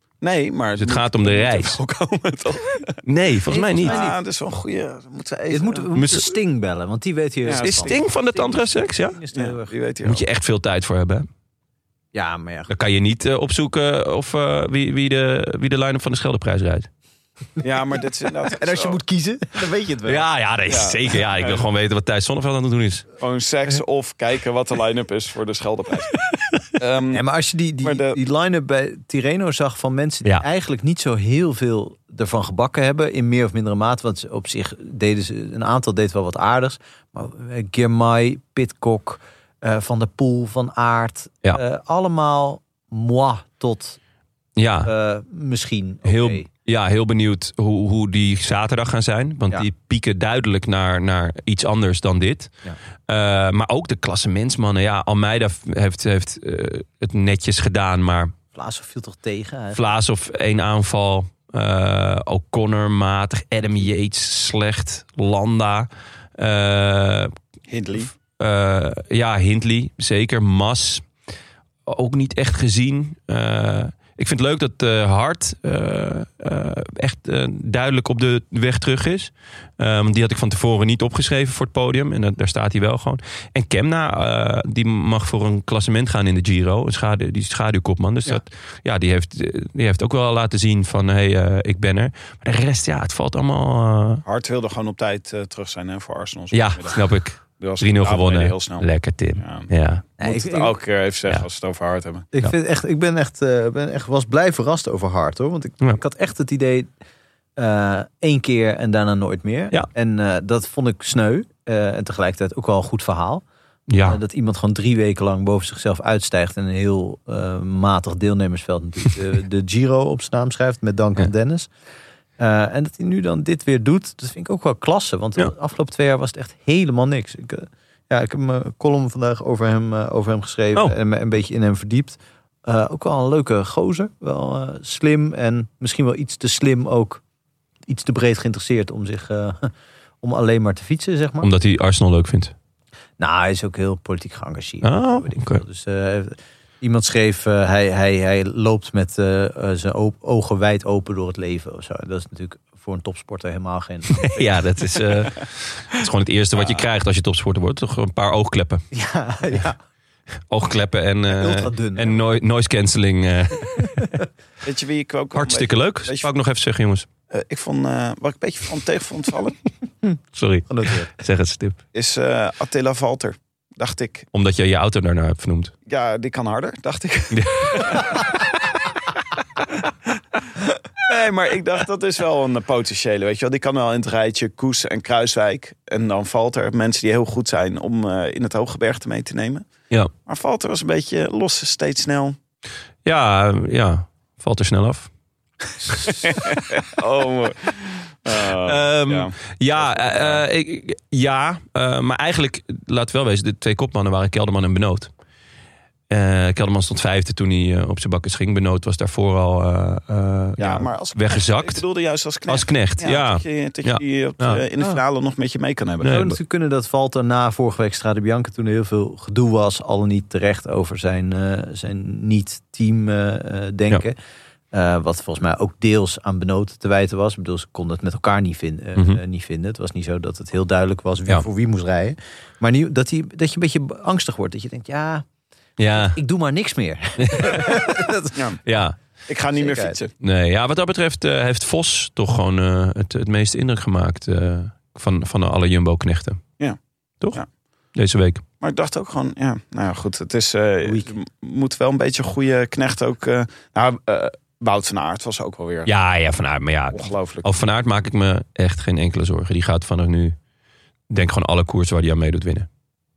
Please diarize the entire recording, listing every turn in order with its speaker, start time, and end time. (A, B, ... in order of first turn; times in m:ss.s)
0:00.2-0:03.0 A
0:00.8-0:01.8 B
0:03.0-0:04.0 B
0:03.5-0:04.2 C
0:03.8-0:05.9 A
0:05.5-0:09.7 C
0:05.9-0:06.3 B
0:07.4-0:08.1 A
0:07.6-0:09.2 B
0:09.3-0:10.2 A
0:10.0-0:11.3 B
0:12.1-0:12.7 C
0:12.7-0:16.9 B
0:17.6-0:19.0 A
0:18.5-0:20.2 C
0:20.0-0:23.0 B
0:20.7-0:21.6 A
0:23.2-0:26.1 A
0:26.8-0:27.2 A
0:27.1-0:44.0 C
0:27.8-0:28.2 A
0:44.6-0:44.9 B
0:44.8-0:46.5 C
0:46.0-0:52.5 B
0:53.1-0:58.3 B
0:58.5-0:59.9 C
0:59.7-1:07.3 B
1:07.7-1:08.1 A
1:08.3-1:11.1 B
1:11.8-1:34.2 B
1:34.2-1:42.3 A
1:36.5-1:40.0 B
1:40.2-1:40.7 C
1:42.3-1:46.9 C
1:47.6-1:53.4 C
1:53.9-1:54.2 B
1:54.0-2:01.7 C
2:02.4-2:17.2 C
2:17.9-2:21.5 C
2:21.4-2:22.5 B
2:23.2-2:34.5 C
2:24.8-2:25.6 B
2:34.1-2:38.8 B
2:38.9-2:39.8 C
2:40.5-2:44.1 B
2:41.3-2:42.2 C
2:44.6-2:46.3 A
2:45.3-2:47.1 B
2:47.3-2:49.6 A
2:50.3-2:51.8 B
2:50.7-2:51.1 C
2:51.9-2:54.3 A
2:54.3-2:55.7 B
2:55.8-2:58.2 A
2:57.3-2:58.2 B
3:01.0-3:09.7 A
3:10.2-3:12.4 A
3:13.0-3:15.1 B
3:16.0-3:20.4 A
3:18.4-3:25.1 B
3:26.1-3:31.8 B
3:30.6-3:36.2 A
3:32.5-3:35.0 B
3:36.0-3:36.4 B
3:36.0-3:44.2 C
3:44.7-3:55.2 C
3:55.8-3:56.2 B
3:55.9-3:58.4 C
3:57.2-3:57.9 B
3:58.3-3:58.6 A
3:58.6-3:59.0 B
3:59.3-4:00.1 A
3:59.6-3:59.9 C
4:00.2-4:06.4 B
4:07.9-4:08.4 B
4:08.6-4:15.9 A
4:15.8-4:20.4 B
4:16.9-4:17.5 A
4:21.1-4:22.7 B